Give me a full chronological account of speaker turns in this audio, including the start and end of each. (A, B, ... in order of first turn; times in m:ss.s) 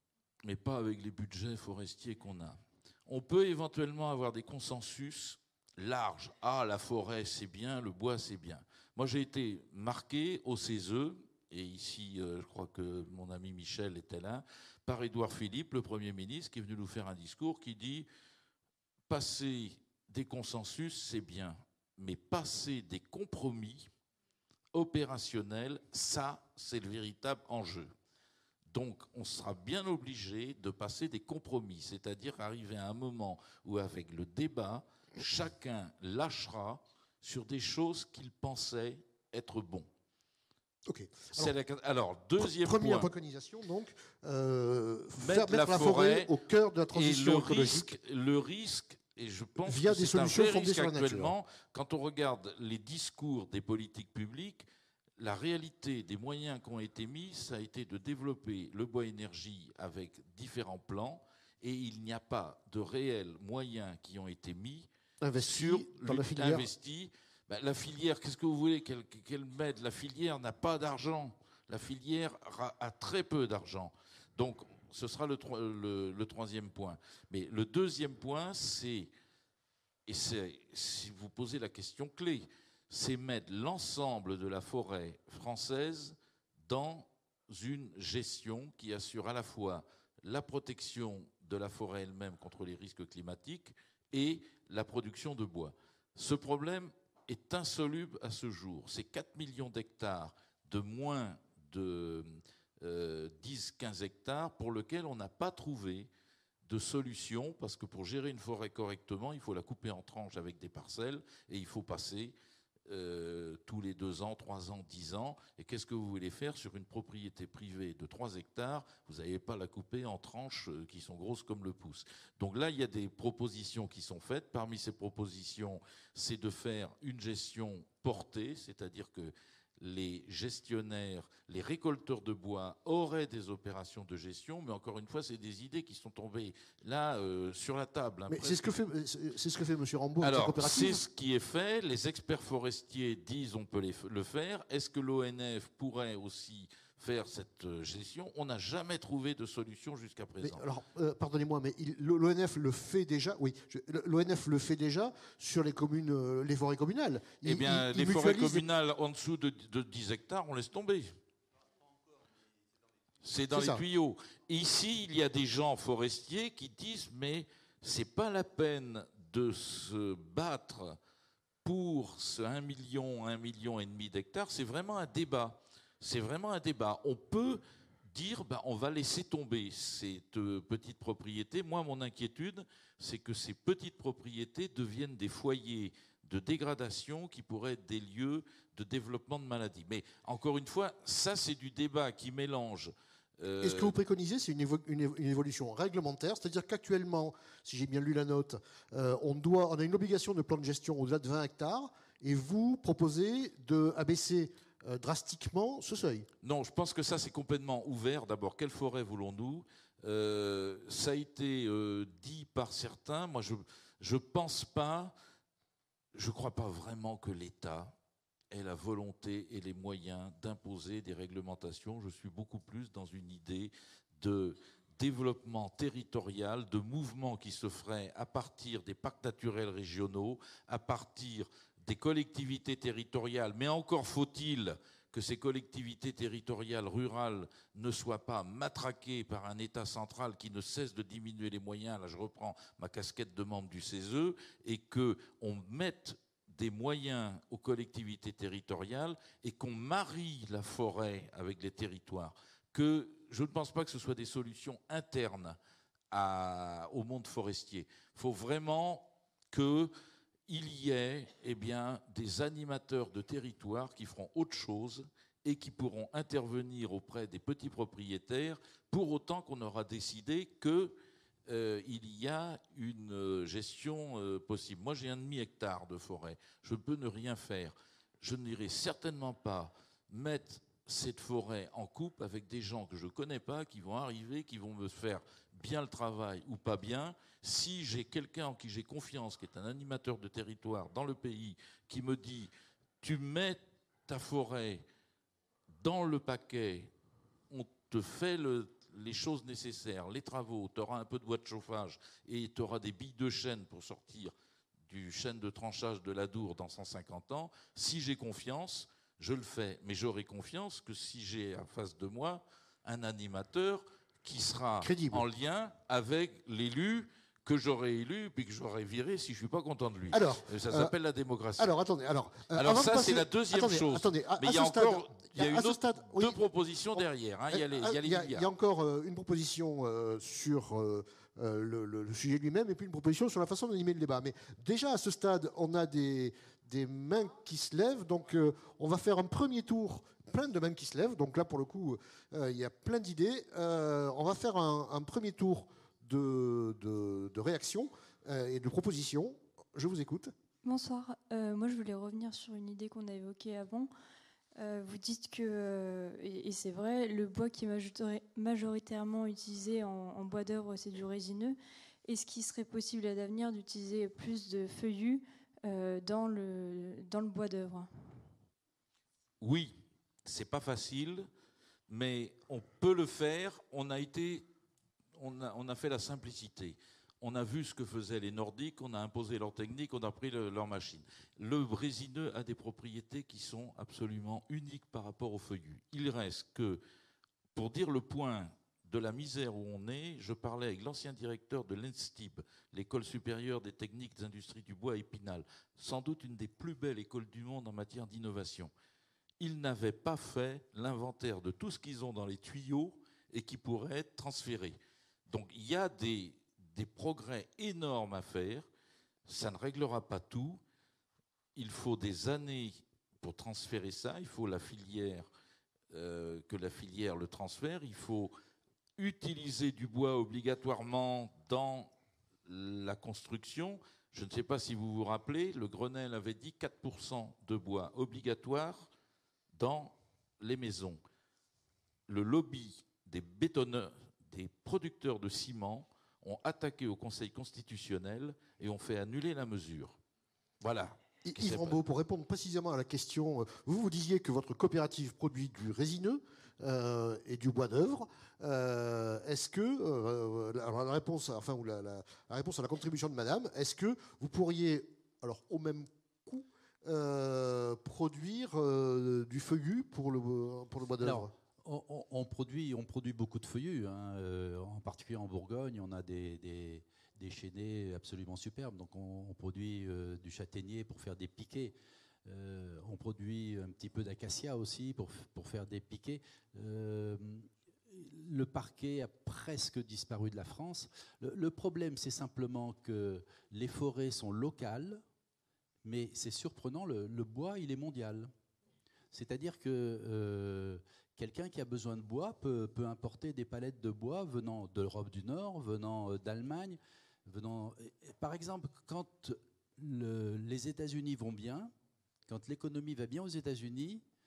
0:00.4-0:18.1 A
0:19.1-0:23.9 A
0:24.7-0:27.9 A
0:28.7-0:39.9 A
0:40.8-0:41.5 B
0:41.3-0:43.1 A
0:42.4-0:47.9 B
0:45.2-0:46.3 A
0:46.9-0:54.6 A
0:49.6-0:51.3 B
0:55.2-1:19.1 A
1:05.2-1:06.7 B
1:20.1-1:46.1 A
1:46.6-1:52.3 A
1:52.9-2:18.6 A
2:18.3-2:21.0 B
2:20.2-2:30.6 A
2:30.4-2:38.6 B
2:37.4-2:41.1 A
2:43.2-2:51.0 A
2:43.5-2:43.8 B
2:51.6-3:13.9 A
3:13.6-3:26.3 B
3:26.4-3:35.1 A
3:36.1-3:37.9 A
3:38.5-4:15.6 A
4:16.1-4:19.9 A
4:20.5-4:31.0 A
4:31.5-4:54.8 A
4:55.8-4:56.9 A
4:57.5-5:04.3 A
5:04.9-5:21.7 A
5:14.8-5:15.2 B
5:20.1-5:20.9 B
5:21.6-5:26.4 B
5:22.5-5:28.5 A
5:26.9-5:50.3 B
5:50.6-5:53.9 C
5:54.6-6:08.3 C
6:09.4-6:11.3 A
6:11.9-6:14.4 A
6:15.2-6:26.8 A
6:27.5-6:38.7 A
6:39.4-6:48.7 A
6:49.3-6:50.6 A
6:51.6-6:55.3 A
6:55.9-6:58.3 A
6:59.0-7:01.9 A
7:02.4-7:08.9 A
7:09.5-7:11.0 A
7:12.1-7:20.0 A
7:20.6-7:21.8 A
7:21.2-7:41.3 B
7:41.0-7:51.7 D
7:52.2-8:05.0 D
8:05.8-8:08.3 D
8:09.1-8:21.7 D
8:22.3-8:24.0 D